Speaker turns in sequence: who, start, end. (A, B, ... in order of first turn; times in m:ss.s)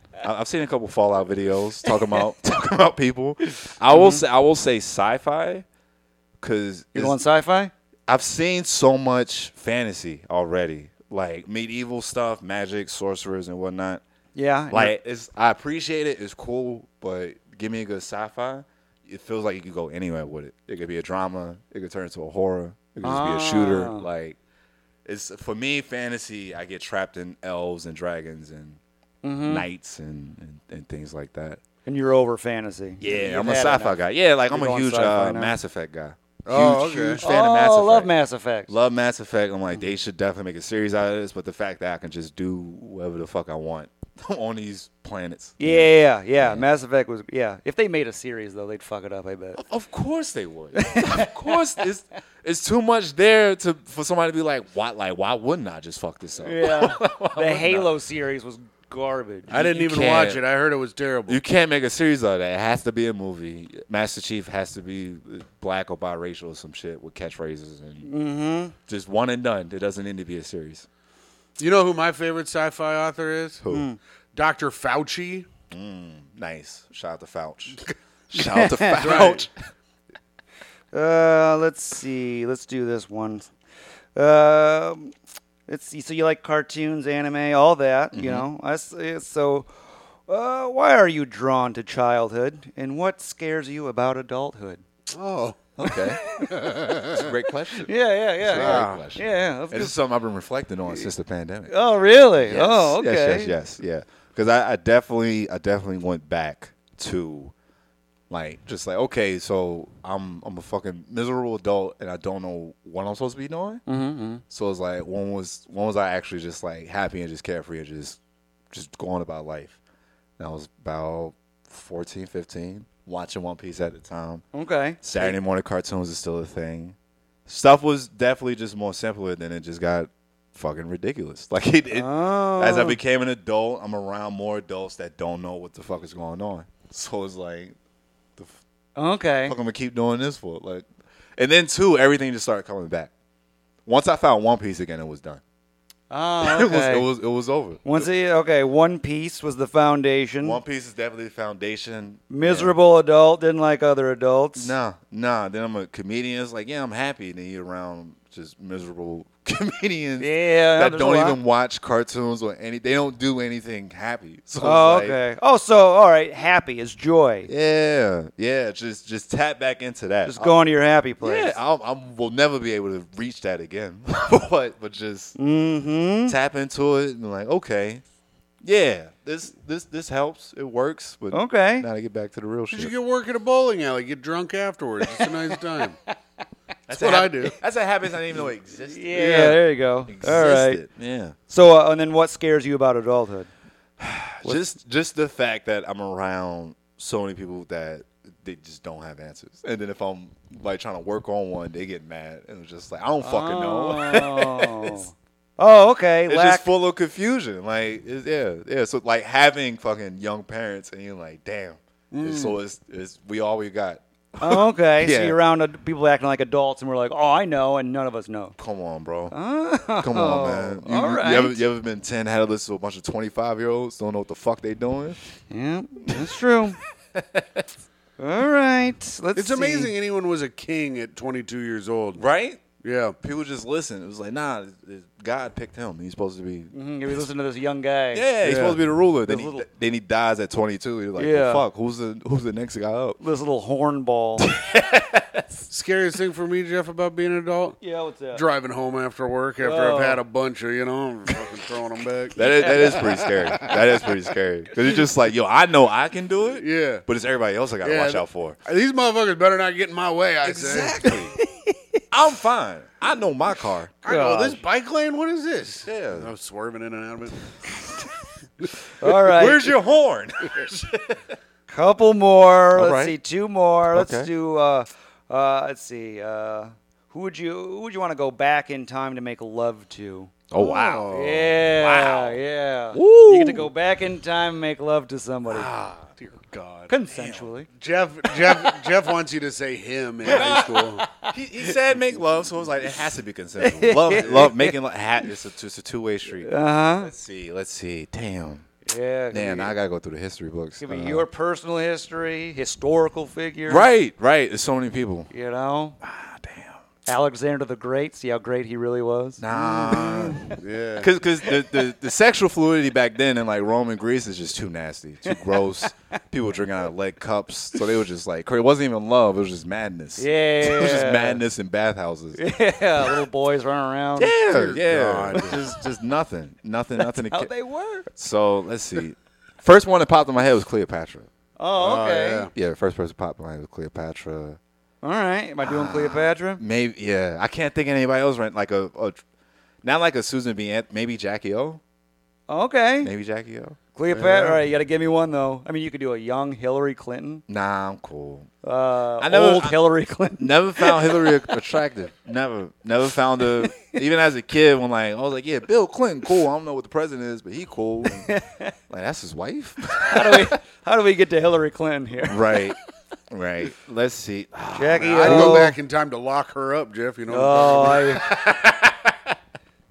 0:00.2-0:05.6 A
0:01.8-0:02.2 B
0:03.4-0:04.2 B
0:06.4-0:07.2 A
0:06.9-0:07.7 B
0:08.1-0:14.0 A
0:14.3-0:14.9 B
0:14.7-0:24.4 A
0:23.0-0:24.0 B
0:25.0-0:28.8 A
0:29.2-0:29.6 B
0:29.4-0:31.6 A
0:31.8-0:35.5 B
0:33.0-0:38.1 A
0:36.4-0:37.2 C
0:37.2-0:38.7 B
0:38.7-0:46.6 A
0:45.6-0:49.6 B
0:49.6-0:57.9 A
0:50.8-0:51.7 B
0:56.4-0:59.5 B
0:59.5-1:00.4 A
0:59.5-1:01.4 C
1:01.3-1:08.1 A
1:08.0-1:08.7 B
1:08.9-1:10.9 A
1:11.6-1:13.6 C
1:13.6-1:13.9 A
1:13.7-1:14.0 B
1:14.3-1:15.5 C
1:15.7-1:19.5 A
1:18.3-1:19.3 B
1:19.0-1:19.4 C
1:20.9-1:23.5 B
1:24.2-1:25.1 B
1:25.7-1:29.7 B
1:28.1-1:28.4 A
1:30.3-1:34.8 B
1:35.1-1:35.7 C
1:35.8-1:37.9 A
1:35.8-1:36.8 B
1:36.4-1:37.3 C
1:37.8-1:39.9 B
1:38.4-1:41.7 A
1:38.5-1:39.0 C
1:41.7-1:43.5 B
1:42.4-1:47.5 A
1:48.3-1:53.8 A
1:53.9-1:54.4 B
1:54.5-1:58.2 A
1:58.7-1:59.8 A
2:00.4-2:04.4 A
2:04.5-2:05.3 B
2:05.0-2:17.8 A
2:11.9-2:13.0 B
2:19.0-2:19.6 B
2:19.4-2:20.8 A
2:21.4-2:23.1 A
2:23.8-2:25.4 A
2:26.1-2:27.1 B
2:26.4-2:28.1 A
2:27.8-2:30.6 B
2:30.4-2:32.7 A
2:32.3-2:34.7 B
2:34.6-2:45.2 A
2:40.2-2:41.4 B
2:44.6-2:47.5 B
2:47.5-2:50.5 A
2:50.3-2:51.6 B
2:51.2-2:55.4 A
2:55.4-2:56.4 B
2:56.3-2:58.0 A
2:58.6-3:02.9 A
3:01.3-3:01.9 B
3:02.7-3:06.0 C
3:06.9-3:11.4 A
3:06.9-3:07.5 C
3:08.9-3:10.8 B
3:09.1-3:09.6 C
3:11.5-3:13.5 B
3:14.0-3:25.0 A
3:23.2-3:26.6 B
3:26.3-3:35.4 A
3:32.1-3:32.6 C
3:34.4-3:38.5 B
3:38.6-3:39.3 A
3:39.3-3:41.6 B
3:40.0-3:45.2 A
3:45.5-3:46.8 B
3:47.1-3:47.7 A
3:48.2-3:49.9 B
3:49.3-3:52.2 C
3:52.2-3:52.6 A
3:52.8-3:53.2 C
3:53.2-3:57.2 A
3:56.7-3:58.3 B
3:58.1-4:03.2 A
3:58.4-3:58.8 C
3:59.2-3:59.6 B
4:01.2-4:01.6 B
4:03.2-4:04.5 B
4:04.4-4:05.6 A
4:05.7-4:07.8 C
4:07.8-4:08.4 B
4:08.3-4:13.7 C
4:09.6-4:10.2 B
4:12.4-4:18.6 A
4:12.4-4:13.1 B
4:16.6-4:17.0 C
4:17.8-4:21.0 C
4:20.4-4:21.4 A
4:21.1-4:22.0 B
4:22.1-4:23.9 A
4:24.0-4:27.4 C
4:24.0-4:24.6 B
4:25.8-4:26.3 A
4:29.0-4:29.6 B
4:29.0-4:31.2 A
4:31.7-4:40.4 B
4:32.7-4:33.1 A
4:33.9-4:34.3 A
4:40.5-4:42.4 A
4:40.6-4:41.5 C
4:41.1-4:45.7 B
4:42.9-4:43.7 A
4:45.5-4:46.1 A
4:46.2-4:46.9 C
4:46.9-4:47.7 B
4:47.1-4:47.5 A
4:47.7-4:51.0 C
4:50.2-4:58.7 A
4:50.3-4:51.3 B
4:53.6-4:54.8 B
4:56.4-4:57.1 B
4:58.8-4:59.7 B
4:59.3-5:01.3 A
5:00.8-5:03.8 B
5:03.7-5:05.3 A
5:05.3-5:06.0 B
5:06.0-5:06.8 A
5:07.1-5:10.6 B
5:09.4-5:22.4 A
5:09.5-5:11.1 C
5:15.2-5:15.9 B
5:20.2-5:21.4 B
5:22.4-5:24.4 B
5:24.2-5:27.5 A
5:24.5-5:25.6 C
5:25.3-5:25.8 B
5:27.0-5:28.1 B
5:28.1-5:31.3 A
5:31.6-5:32.5 B
5:31.8-5:32.5 C
5:32.5-5:34.6 A
5:35.0-5:36.6 B
5:35.6-5:39.2 A
5:39.8-5:41.8 A
5:42.5-5:43.1 B
5:43.0-5:43.8 A
5:43.9-5:47.4 B
5:44.1-5:44.6 C
5:47.5-5:48.5 A
5:48.6-5:51.4 B
5:49.2-5:49.8 A
5:50.4-5:58.3 A
5:58.0-5:58.7 B
5:58.9-6:00.6 A
6:00.0-6:02.7 B
6:02.2-6:02.8 A
6:03.3-6:05.7 A
6:04.7-6:05.8 B
6:05.0-6:08.1 C
6:07.3-6:08.3 B
6:08.2-6:09.3 A